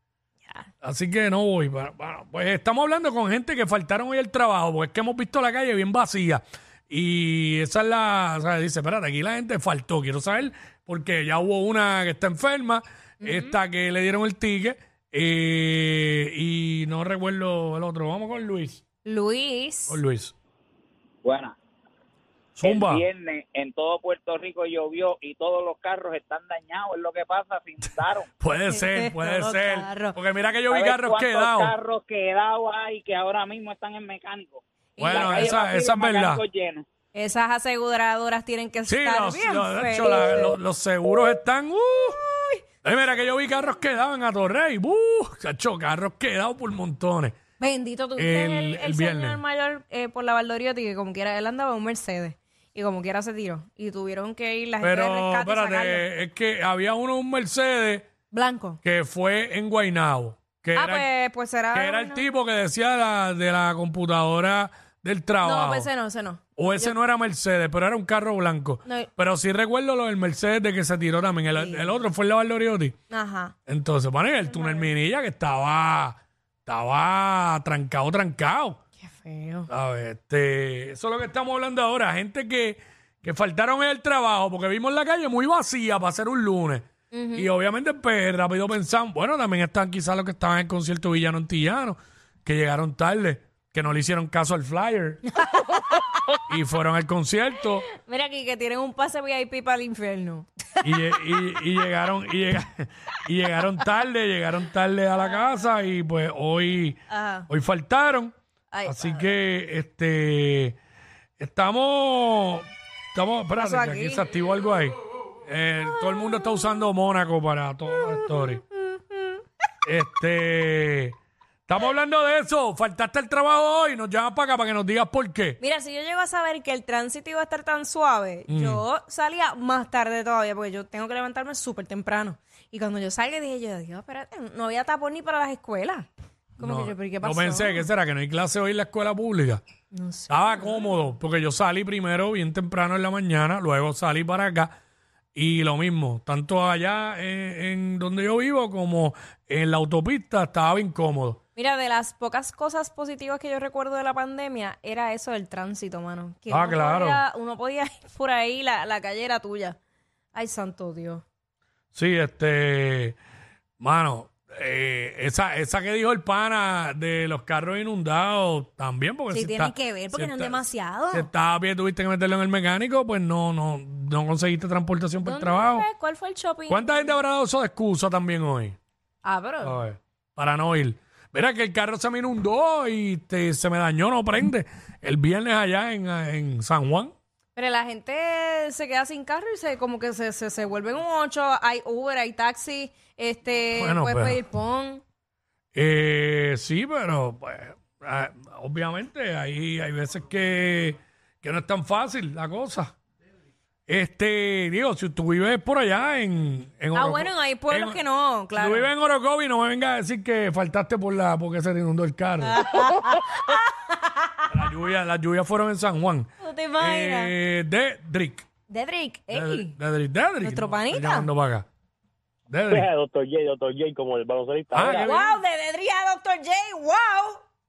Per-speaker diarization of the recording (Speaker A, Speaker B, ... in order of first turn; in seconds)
Speaker A: 0.8-18.8, 19.9-20.3, 22.6-23.1, 28.4-31.7, 35.0-36.4, 38.9-42.2, 42.8-47.4, 48.1-49.4, 54.8-58.1, 58.8-61.1, 61.7-65.9, 66.6-72.9, 73.7-78.8, 79.7-95.2, 96.5-97.8, 100.8-110.8, 111.4-118.6, 119.8-121.2, 121.7-125.6, 128.5-128.8, 136.6-139.6, 140.3-144.7, 145.3-151.4, 156.5-157.2, 161.9-163.2, 163.8-175.8, 176.7-178.8, 179.6-187.1, 193.7-194.4, 195.7-202.9, 203.9-208.0, 208.5-212.7, 214.5-218.5, 219.3-221.7, 222.5-222.9, 224.7-225.3
Speaker B: 13.2-13.6, 19.0-20.0, 28.7-30.2, 35.0-35.6, 37.1-40.6, 42.3-42.6, 47.6-56.0, 58.3-58.8, 60.7-62.2, 65.4-66.9, 71.5-71.9, 73.1-73.5, 74.5-74.9, 79.0-79.7, 87.1-87.5, 95.4-96.4, 97.9-101.2, 107.1-107.5, 108.7-109.2, 113.5-114.2, 116.1-116.5, 118.0-119.4, 125.6-137.8, 139.9-140.8, 151.6-159.8, 160.3-161.2, 169.3-171.3, 175.2-177.1, 179.2-179.8, 187.5-195.0, 206.9-208.9, 212.4-214.4, 216.4-217.3, 218.7-219.7, 220.4-221.3, 224.9-227.4
Speaker C: 21.2-21.6, 22.6-28.3, 30.7-36.9
Speaker D: 222.7-225.1